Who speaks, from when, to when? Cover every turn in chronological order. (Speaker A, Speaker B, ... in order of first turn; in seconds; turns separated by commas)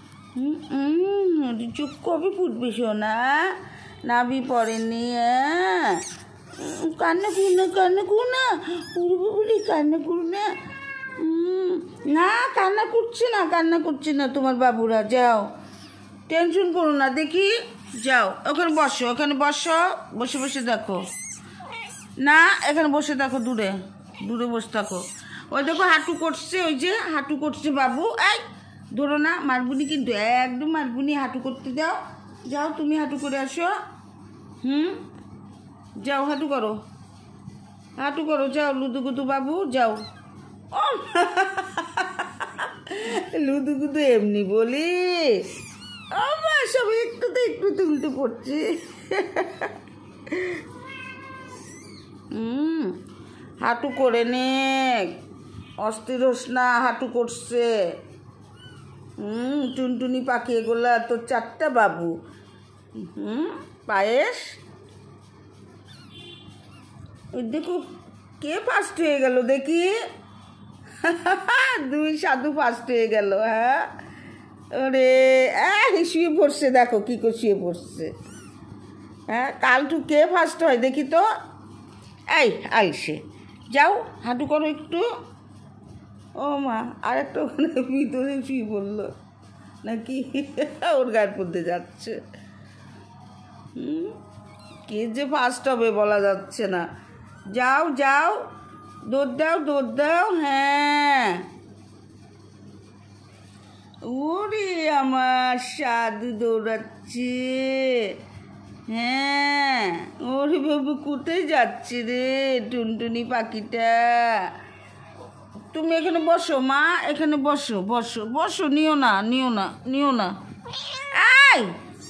Speaker A: 0.3-6.1, Speaker A: 6.6-10.5, Speaker A: 11.2-15.5, Speaker A: 16.3-21.0, Speaker A: 22.2-33.8, Speaker A: 34.6-35.0, Speaker A: 36.0-36.8, Speaker A: 38.0-40.0, Speaker A: 40.7-45.5, Speaker A: 46.1-49.8, Speaker A: 50.3-50.6, Speaker A: 52.3-53.0, Speaker A: 53.6-55.2, Speaker A: 55.8-57.7, Speaker A: 59.2-62.2, Speaker A: 63.0-64.6, Speaker A: 67.3-70.0, Speaker A: 71.0-73.9, Speaker A: 74.7-78.1, Speaker A: 79.3-81.3, Speaker A: 82.3-85.1, Speaker A: 86.4-89.1, Speaker A: 89.8-92.2, Speaker A: 93.8-94.2, Speaker A: 94.9-96.9, Speaker A: 97.5-98.4, Speaker A: 99.1-101.5, Speaker A: 104.1-108.2, Speaker A: 108.9-114.5, Speaker A: 115.7-120.4, Speaker A: 121.1-121.8